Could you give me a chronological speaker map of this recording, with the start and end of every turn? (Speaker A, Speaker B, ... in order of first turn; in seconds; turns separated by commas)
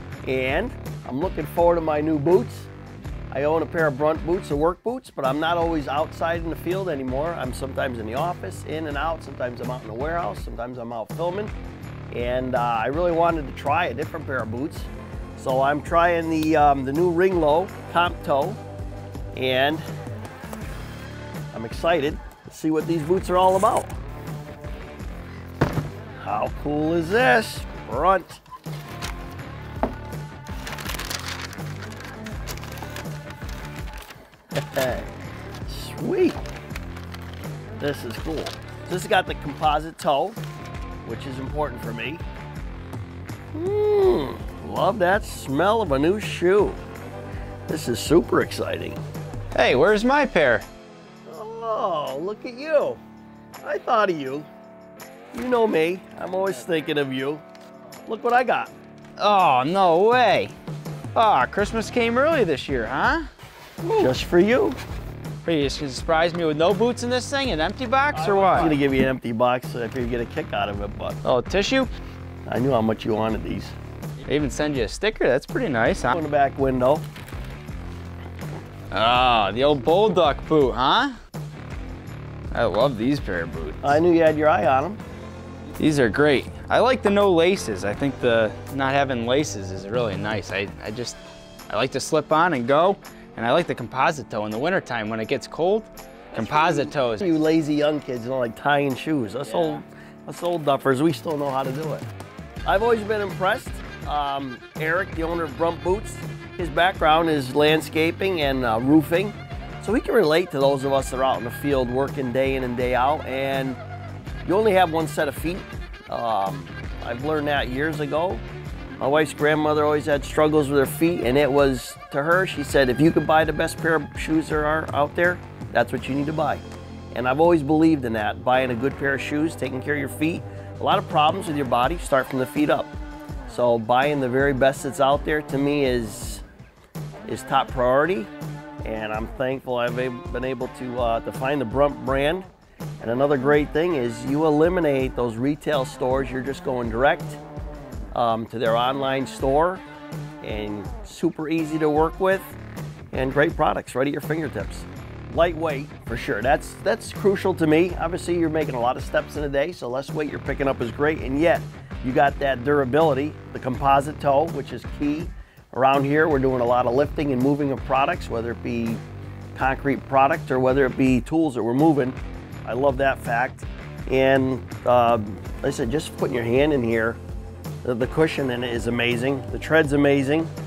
Speaker A: 0.2-2.7, Speaker A: 3.3-11.5, Speaker A: 12.1-18.6, Speaker A: 19.4-19.8, Speaker A: 21.5-23.9, Speaker A: 26.2-28.4, Speaker A: 34.5-35.1, Speaker A: 35.7-36.4, Speaker A: 37.8-40.4, Speaker A: 41.0-42.2, Speaker A: 43.5-46.8, Speaker A: 47.7-49.0, Speaker B: 49.5-50.7, Speaker A: 51.3-53.0, Speaker A: 53.6-54.5, Speaker A: 55.3-57.4, Speaker A: 58.1-58.7, Speaker B: 59.2-60.5, Speaker B: 61.1-63.3, Speaker B: 63.8-64.1, Speaker A: 64.0-64.8, Speaker B: 65.5-68.8, Speaker A: 68.1-71.2, Speaker B: 71.2-71.9, Speaker A: 72.5-73.8, Speaker B: 74.3-76.2, Speaker A: 76.1-77.0, Speaker B: 78.9-81.1, Speaker B: 82.5-84.0, Speaker A: 83.8-85.0, Speaker B: 85.8-91.2, Speaker B: 91.7-97.3, Speaker A: 96.3-102.1, Speaker A: 102.7-113.8, Speaker A: 114.5-118.4, Speaker A: 119.0-132.9, Speaker A: 133.5-136.4, Speaker A: 137.3-138.3, Speaker A: 138.8-142.5, Speaker A: 143.0-147.4, Speaker A: 148.1-149.8, Speaker A: 150.4-152.6, Speaker A: 153.1-169.0, Speaker A: 169.6-177.2, Speaker A: 177.8-180.5